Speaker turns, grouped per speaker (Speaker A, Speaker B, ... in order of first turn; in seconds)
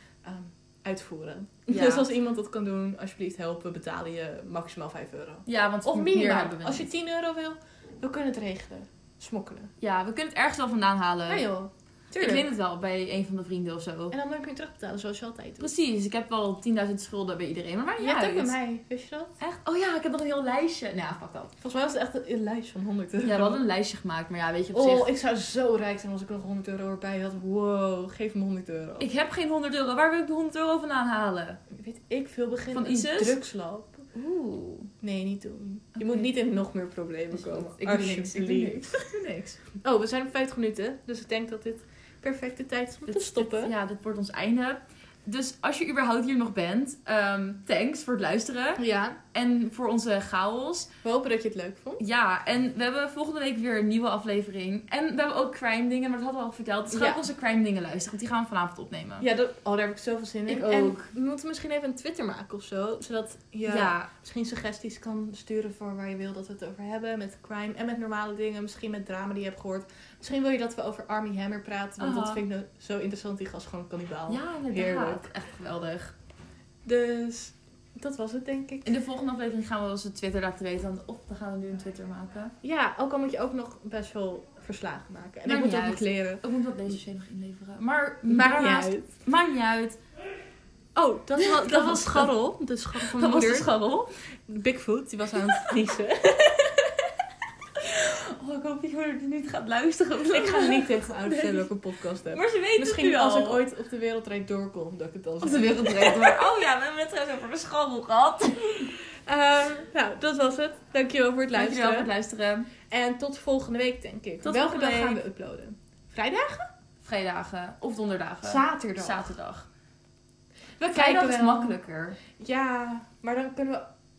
Speaker A: 0.2-9.7, 11.3-12.5, 14.1-15.7, 18.0-19.4, 21.6-23.6, 24.7-29.1, 31.7-34.1, 35.0-43.7, 48.8-49.2, 51.0-52.0, 56.9-57.2, 59.2-75.3, 76.8-79.0, 82.6-86.4, 88.3-89.1, 91.0-93.7, 94.5-97.1, 100.3-106.5, 108.8-112.1, 112.9-116.7, 118.4-119.3, 120.8-121.8, 122.3-123.9
Speaker B: 1.7-2.1, 5.5-6.9, 9.8-11.5, 12.2-14.2, 15.6-18.6, 19.4-21.5, 23.2-25.1, 29.0-31.6, 32.7-33.4, 34.1-34.9, 36.0-36.3, 37.3-38.8, 43.1-50.9, 52.0-59.3, 60.5-61.1, 63.6-64.1, 72.0-72.4, 74.3-76.2, 78.8-82.5, 85.5-90.0, 91.4-92.3, 93.0-94.1, 97.8-101.7, 102.3-103.6, 105.4-109.0, 111.5-112.7, 114.4-115.2, 117.0-119.7, 120.9-122.2